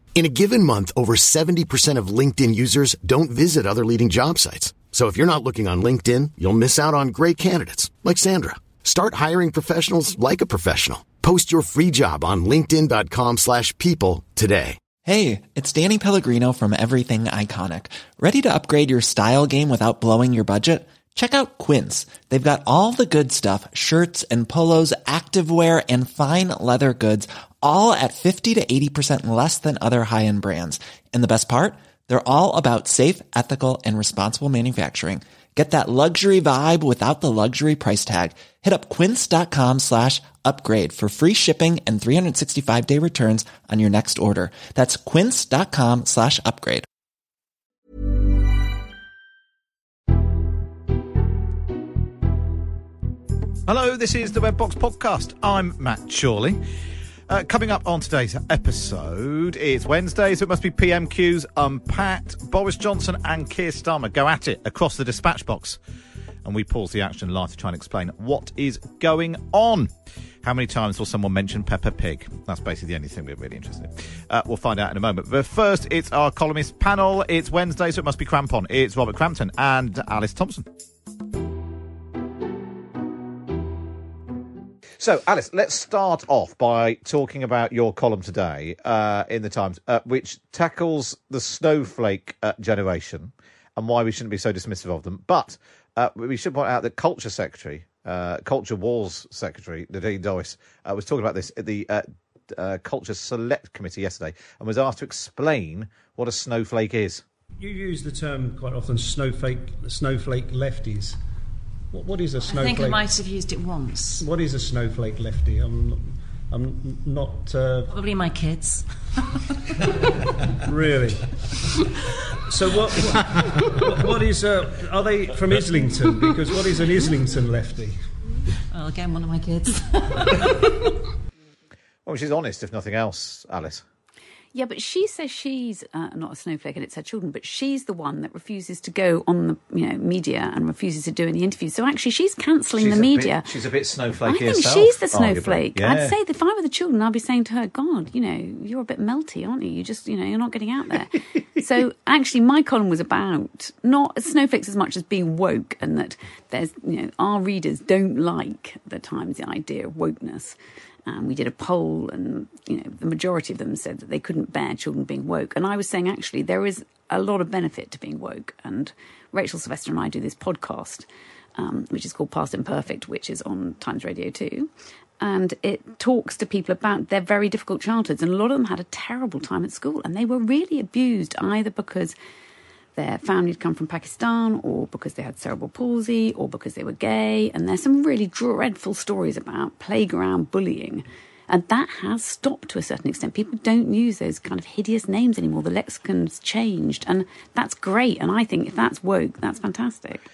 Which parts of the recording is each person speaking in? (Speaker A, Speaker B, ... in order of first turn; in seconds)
Speaker A: 0.1-14.8
Speaker B: 15.0-46.9
Speaker C: 53.7-56.6, 57.3-65.8, 66.4-69.9, 70.4-80.7, 85.0-107.2, 132.1-133.8, 142.7-146.2
Speaker D: 107.6-111.2, 111.9-113.1, 114.2-118.0, 120.7-121.2, 122.5-128.0
Speaker E: 112.4-114.3, 117.9-118.8, 128.7-130.6
Speaker F: 134.5-143.5, 144.2-182.1, 182.9-200.2